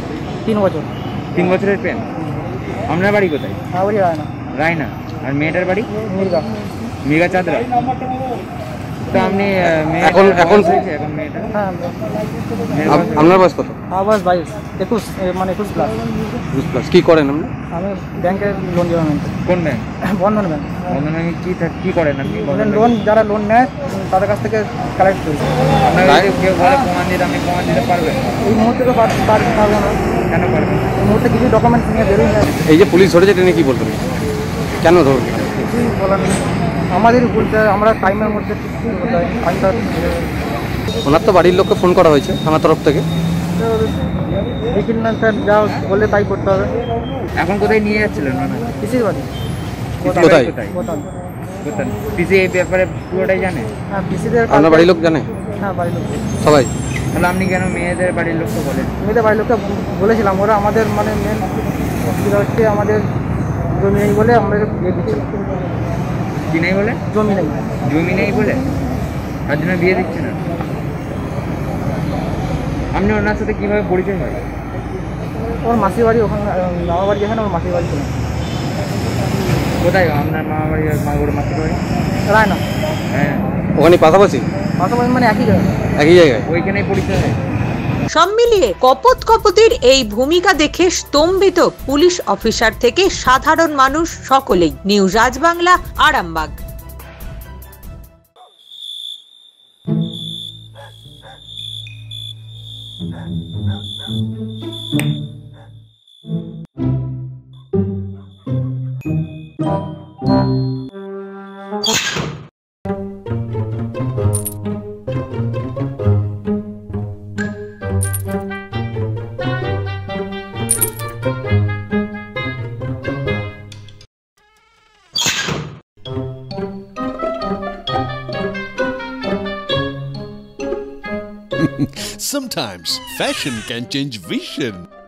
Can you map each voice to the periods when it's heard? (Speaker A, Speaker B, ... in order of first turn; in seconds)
Speaker A: 0.4-0.9, 3.7-4.3, 6.1-6.5, 11.5-11.9, 13.9-15.9, 17.7-19.3, 20.0-20.8, 22.5-25.5, 28.4-29.9, 31.0-32.5, 35.7-36.4, 36.9-40.1, 43.6-43.9, 44.7-46.7, 48.8-49.3, 50.7-51.1, 53.9-54.9, 55.6-56.3, 59.0-63.0, 63.8-65.3, 67.1-67.6, 75.6-78.1, 82.3-82.6, 84.8-85.7
Speaker B: 1.3-2.1, 2.9-3.6, 4.5-5.9, 7.0-7.7, 9.1-11.5, 12.7-13.4, 19.4-19.8, 20.9-22.9, 25.9-28.3, 30.3-30.9, 47.4-48.7, 50.0-50.8, 51.6-53.7, 57.1-58.9, 66.5-67.0, 67.8-68.6, 69.5-70.4, 72.9-74.4, 79.8-81.8, 83.1-83.4, 86.5-87.4
Speaker C: 10.0-10.7, 12.8-13.8, 16.5-17.5, 32.6-34.0, 34.8-35.7, 41.0-43.0, 50.0-50.5, 54.5-55.3, 56.4-56.7, 83.8-84.5, 86.0-86.5
Speaker D: 88.1-96.5
Speaker E: 131.6-134.8